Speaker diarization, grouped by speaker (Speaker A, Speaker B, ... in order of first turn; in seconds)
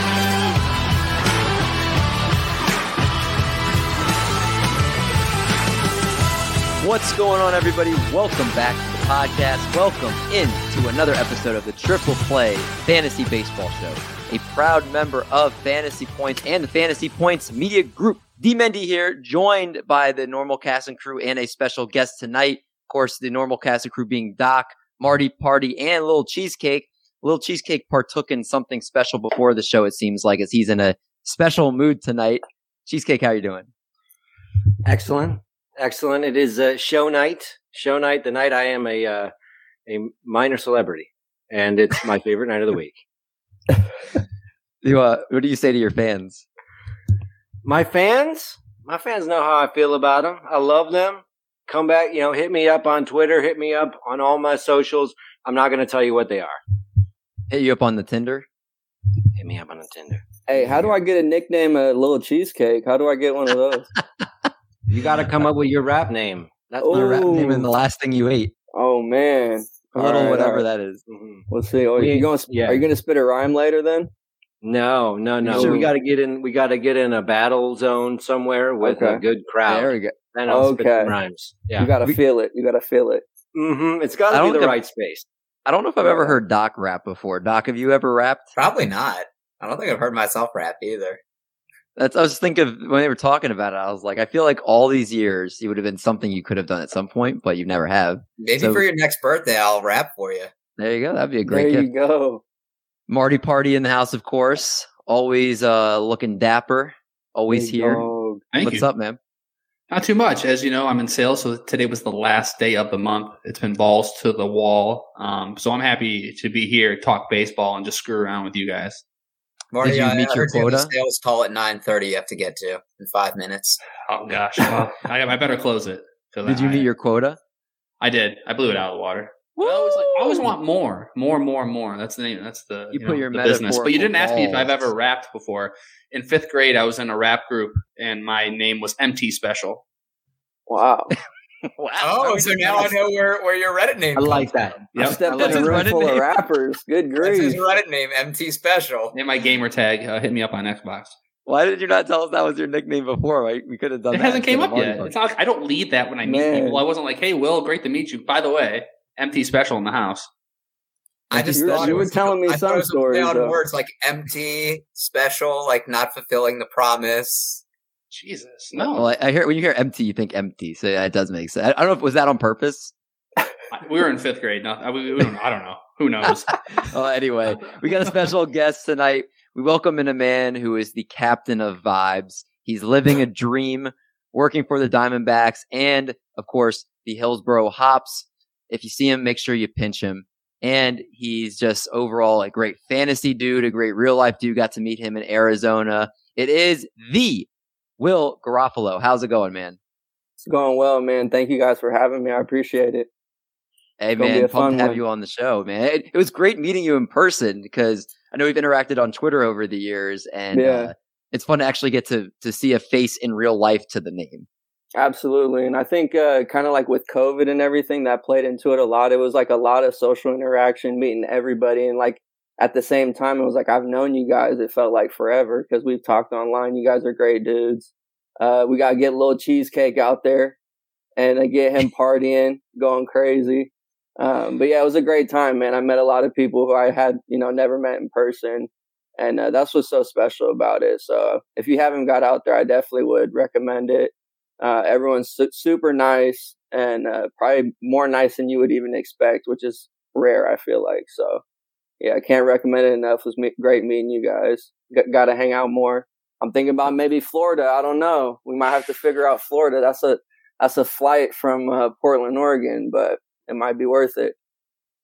Speaker A: 6.8-33.7, 44.8-46.4, 57.5-58.5, 66.9-68.5, 69.9-71.0, 75.5-75.9, 84.3-84.8, 85.7-88.5, 92.0-98.8, 100.8-101.9, 103.1-108.0, 108.6-109.2, 119.8-120.9, 126.5-127.4, 129.6-130.5, 132.9-134.9, 141.8-143.1, 145.2-146.3, 151.4-155.1, 161.3-162.1, 168.8-172.9, 176.8-197.5, 198.0-199.8, 204.0-214.5
Speaker B: 34.8-39.3, 39.9-43.0, 47.6-56.6, 59.3-60.9, 64.9-67.7, 71.1-71.4, 72.0-72.8, 74.6-81.9, 83.5-85.2, 144.1-144.8
Speaker C: 60.5-63.9, 66.8-67.6, 68.7-70.6, 71.5-74.1, 75.5-75.9, 78.8-81.2, 81.8-83.2, 86.0-86.4, 101.5-102.4, 107.5-108.4, 140.7-141.1, 145.0-147.6, 156.2-156.8, 161.4-163.6, 200.4-203.1, 204.2-205.0, 210.5-210.9, 214.9-230.6, 231.2-251.4, 252.0-264.3
Speaker D: 88.5-91.2, 98.4-100.5, 119.7-123.8, 142.0-144.6, 147.2-149.1, 161.3-167.6
Speaker E: 108.5-108.9, 109.9-119.0, 124.1-126.9, 128.0-139.8, 144.9-145.2, 149.1-151.1, 154.1-160.3, 168.1-169.1, 173.7-176.9